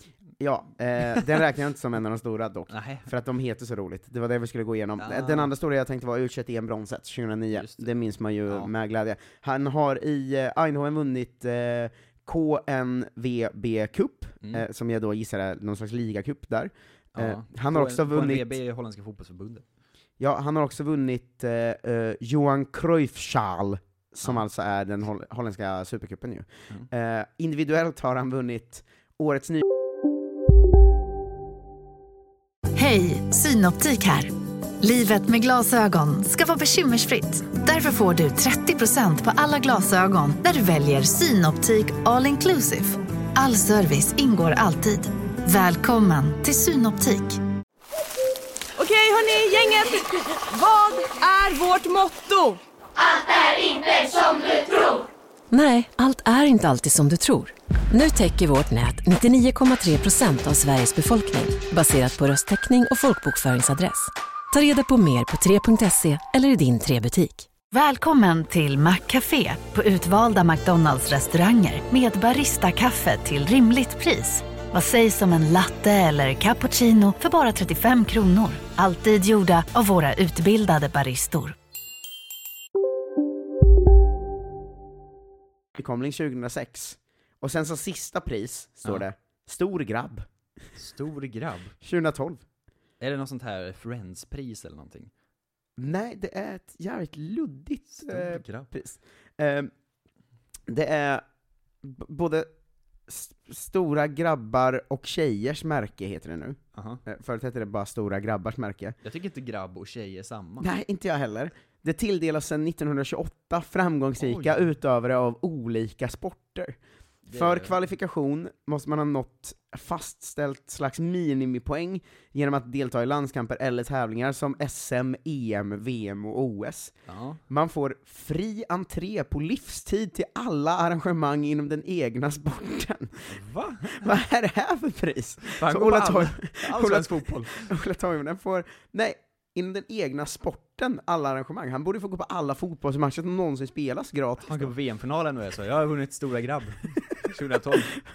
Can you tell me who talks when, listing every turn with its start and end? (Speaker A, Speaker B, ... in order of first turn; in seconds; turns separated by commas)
Speaker A: 0.4-18.6, Speaker B: 2.7-3.1, Speaker B: 5.0-5.5, Speaker B: 7.5-7.9, Speaker B: 8.5-8.7, Speaker B: 17.1-19.6, Speaker A: 20.2-29.6, Speaker C: 32.8-47.4, Speaker D: 48.8-52.6, Speaker E: 55.5-67.5, Speaker C: 67.7-81.6, Speaker A: 85.8-90.2, Speaker B: 90.8-91.8, Speaker A: 91.8-92.4, Speaker B: 93.0-95.1, Speaker A: 95.8-99.7, Speaker B: 97.9-98.7, Speaker A: 100.7-101.2, Speaker A: 101.8-102.5, Speaker A: 103.1-109.0, Speaker B: 106.7-107.0, Speaker B: 109.0-110.7, Speaker A: 110.6-116.8, Speaker B: 114.2-114.7, Speaker B: 117.3-117.8, Speaker A: 117.3-127.0, Speaker B: 127.1-127.4, Speaker A: 127.5-133.3, Speaker B: 133.3-134.1, Speaker A: 133.9-144.7, Speaker B: 135.4-137.7, Speaker B: 144.4-148.0